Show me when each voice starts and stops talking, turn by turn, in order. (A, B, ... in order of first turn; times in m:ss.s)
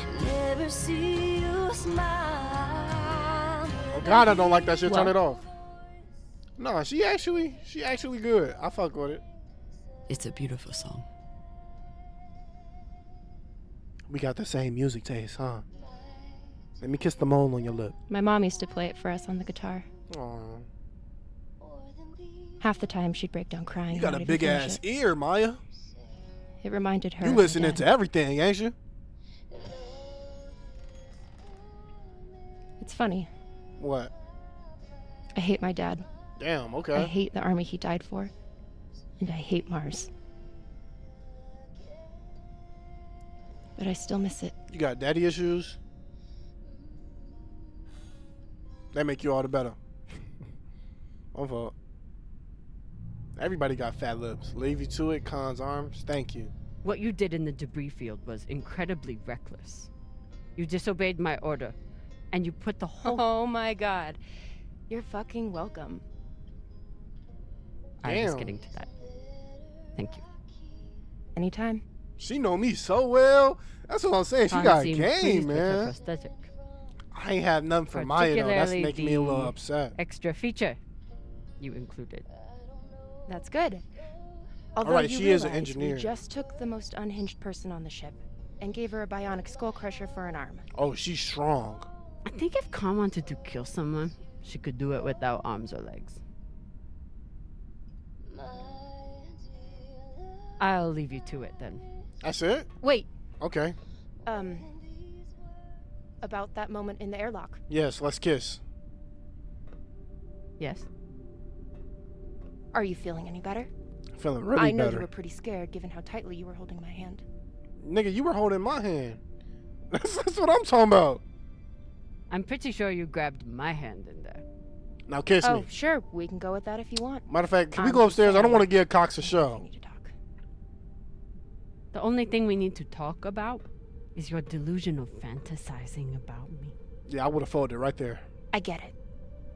0:03.9-0:05.4 A
0:04.9-0:05.1 B
0:06.6-0:09.2 A
0:10.1-0:11.0 B
0:14.1-0:15.6 A
0:16.8-0:17.9 A
0:18.1-0:19.9 C
0:20.1-0:20.7 A
0:22.6-0:24.8 C
0:23.9-0:25.6 A
0:26.6-0:27.8 C
0:27.2-0:28.7 A
0:32.8-0:33.3 C
0:33.8-0:34.1 A
0:35.3-0:36.0 C
0:36.4-0:37.1 A
0:36.9-0:38.3 C
0:39.2-0:40.1 C
0:43.8-0:44.5 C
0:44.7-0:45.8 A
0:48.9-0:49.8 A
0:51.3-0:51.7 A
0:53.4-0:56.5 A
0:56.8-0:59.9 B
1:00.6-1:01.8 B
1:02.3-1:03.2 B
1:03.0-1:04.2 C
1:04.9-1:06.0 C
1:08.0-1:08.9 B
1:08.0-1:08.5 A
1:10.0-1:10.2 B
1:11.4-1:11.8 C
1:12.2-1:15.9 A
1:14.5-1:16.5 B
1:17.1-1:19.9 A
1:17.9-1:20.8 B
1:21.6-1:22.2 B
1:23.3-1:23.8 C
1:24.8-1:30.6 C
1:24.8-1:26.1 A
1:30.7-1:31.9 A
1:32.2-1:36.2 B
1:40.6-1:41.8 B
1:42.2-1:42.7 A
1:42.8-1:43.1 C
1:43.4-1:43.8 A
1:44.2-1:44.7 C
1:46.2-1:47.6 C
1:47.7-1:48.6 A
1:50.6-1:50.9 B
1:52.7-1:53.7 C
1:54.2-1:55.0 A
1:54.6-1:57.2 C
1:57.8-1:59.2 A
1:59.9-2:01.2 A
2:02.3-2:04.4 B
2:05.1-2:05.7 A
2:05.4-2:07.2 C
2:07.3-2:09.6 A
2:07.8-2:10.1 C
2:11.9-2:16.7 B
2:17.1-2:18.2 A
2:18.5-2:18.9 C